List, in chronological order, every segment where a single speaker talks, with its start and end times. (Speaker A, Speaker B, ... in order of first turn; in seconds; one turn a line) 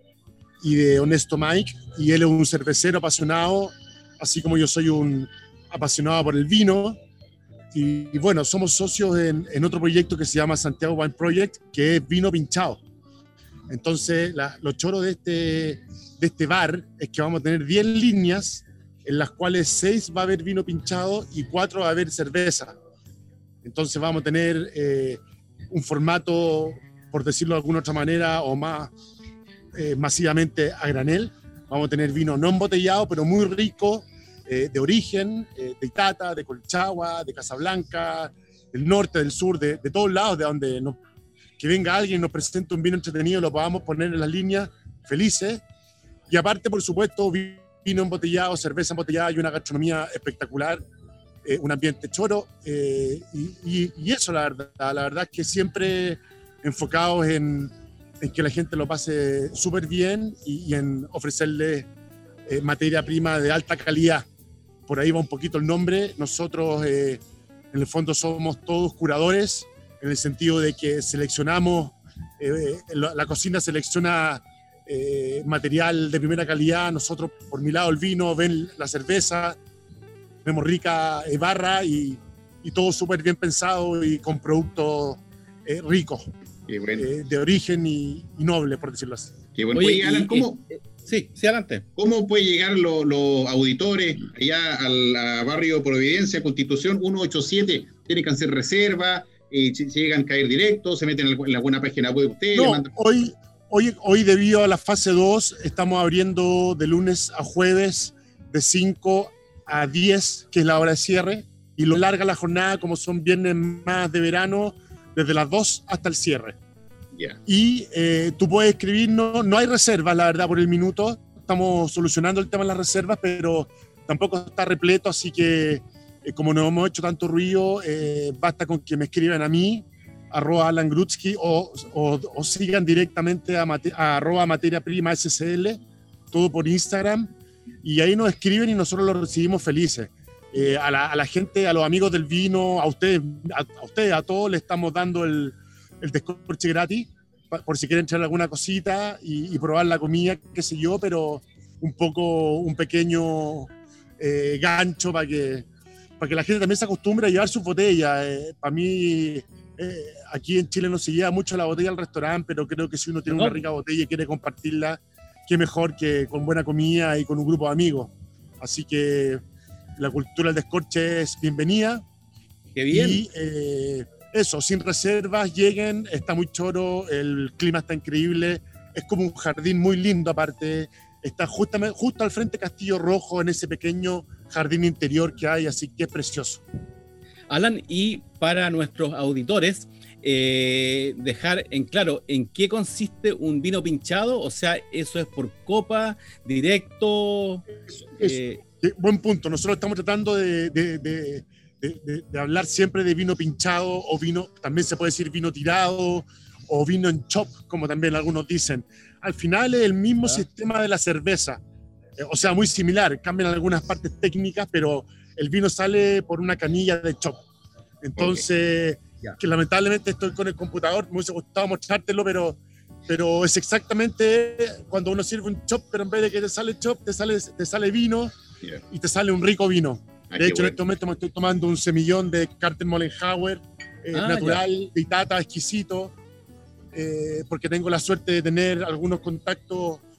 Speaker A: 0.6-7.0
Speaker A: 7.7-12.8
Speaker A: 13.7-22.7
Speaker A: 23.6-25.2
Speaker A: 25.7-28.9
Speaker A: 29.8-41.0
Speaker A: 41.6-45.6
Speaker A: 46.3-50.8
Speaker A: 51.5-61.9
Speaker A: 62.5-64.3
Speaker A: 64.9-67.2
Speaker A: 67.7-79.6
Speaker A: 80.4-86.3
Speaker B: 86.7-87.1
Speaker A: 87.0-89.3
Speaker B: 89.6-90.6
Speaker C: 89.8-91.8
Speaker B: 92.0-102.9
Speaker A: 102.5-116.6
Speaker A: 117.5-135.8
Speaker A: 136.3-137.3
Speaker A: 137.8-155.7
Speaker A: 156.2-169.4
Speaker C: 163.3-163.6
Speaker A: 170.0-172.0
Speaker C: 172.8-173.2
Speaker A: 172.9-186.6
Speaker C: 187.5-197.7
Speaker A: 197.9-211.6
Speaker C: 198.2-198.6
Speaker A: 212.2-217.4
Speaker A: 218.0-228.3
Speaker B: 218.2-218.4
Speaker A: 228.9-236.1
Speaker B: 230.3-230.8
Speaker C: 234.1-234.6
Speaker A: 236.9-240.0